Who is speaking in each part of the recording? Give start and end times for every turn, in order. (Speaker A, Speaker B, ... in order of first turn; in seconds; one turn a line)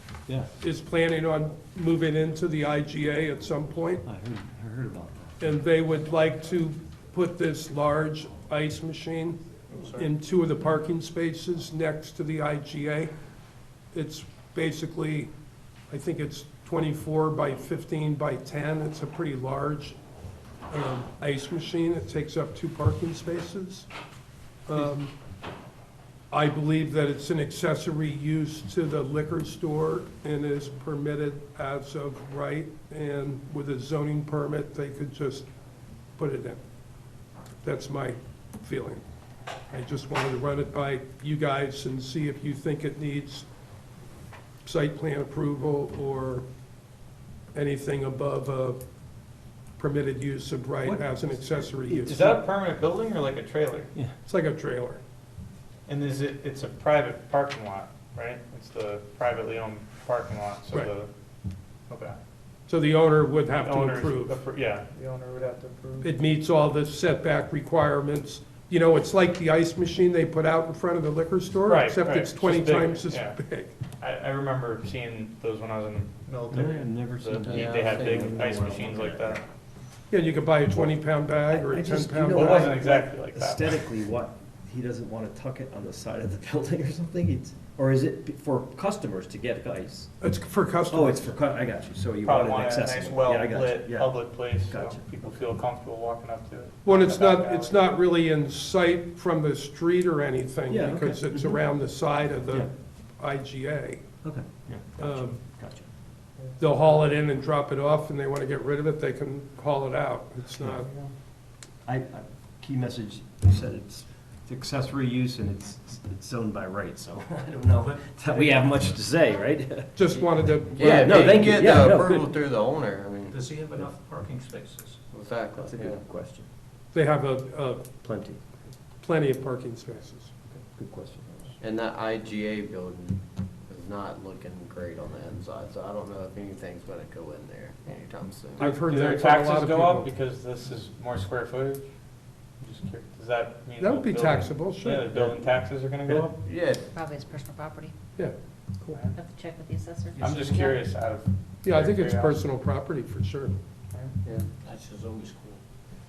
Speaker A: 0.3-0.5
Speaker B: 0.6-4.0
Speaker A: 4.0-5.4
Speaker B: 5.4-9.4
Speaker C: 9.7-10.0
Speaker B: 9.9-13.1
Speaker B: 13.9-15.3
Speaker B: 15.9-20.0
Speaker B: 20.7-23.9
Speaker B: 24.7-25.1
Speaker B: 26.3-35.5
Speaker B: 36.2-36.6
Speaker B: 37.6-39.0
Speaker B: 39.7-43.5
Speaker B: 44.6-46.5
Speaker B: 47.5-48.8
Speaker B: 49.8-52.3
Speaker A: 50.9-52.4
Speaker C: 52.0-53.9
Speaker B: 54.2-55.0
Speaker C: 55.9-61.1
Speaker C: 61.9-62.2
Speaker B: 62.7-64.4
Speaker C: 63.6-66.1
Speaker B: 66.0-73.7
Speaker C: 71.7-73.4
Speaker C: 74.0-79.5
Speaker A: 76.5-79.3
Speaker D: 77.5-79.1
Speaker B: 80.1-82.8
Speaker A: 81.5-90.1
Speaker C: 82.3-83.8
Speaker B: 90.2-91.3
Speaker A: 90.9-95.0
Speaker C: 92.2-97.8
Speaker B: 96.8-104.0
Speaker A: 100.7-101.7
Speaker A: 104.2-105.9
Speaker B: 105.0-105.4
Speaker B: 106.6-110.9
Speaker C: 110.6-111.1
Speaker A: 111.9-122.3
Speaker E: 117.8-118.7
Speaker B: 120.0-121.3
Speaker D: 120.7-123.4
Speaker E: 123.3-125.0
Speaker D: 125.1-126.0
Speaker A: 125.6-126.5
Speaker B: 126.9-128.0
Speaker A: 128.0-128.4
Speaker B: 129.0-130.3
Speaker A: 130.6-131.6
Speaker D: 131.6-138.7
Speaker B: 138.6-140.1
Speaker C: 138.6-141.9
Speaker C: 142.6-146.3
Speaker B: 143.8-145.1
Speaker D: 146.4-146.8
Speaker F: 146.9-147.9
Speaker C: 148.9-149.2
Speaker F: 149.2-150.8
Speaker C: 150.2-152.4
Speaker B: 151.6-153.6
Speaker E: 154.6-155.6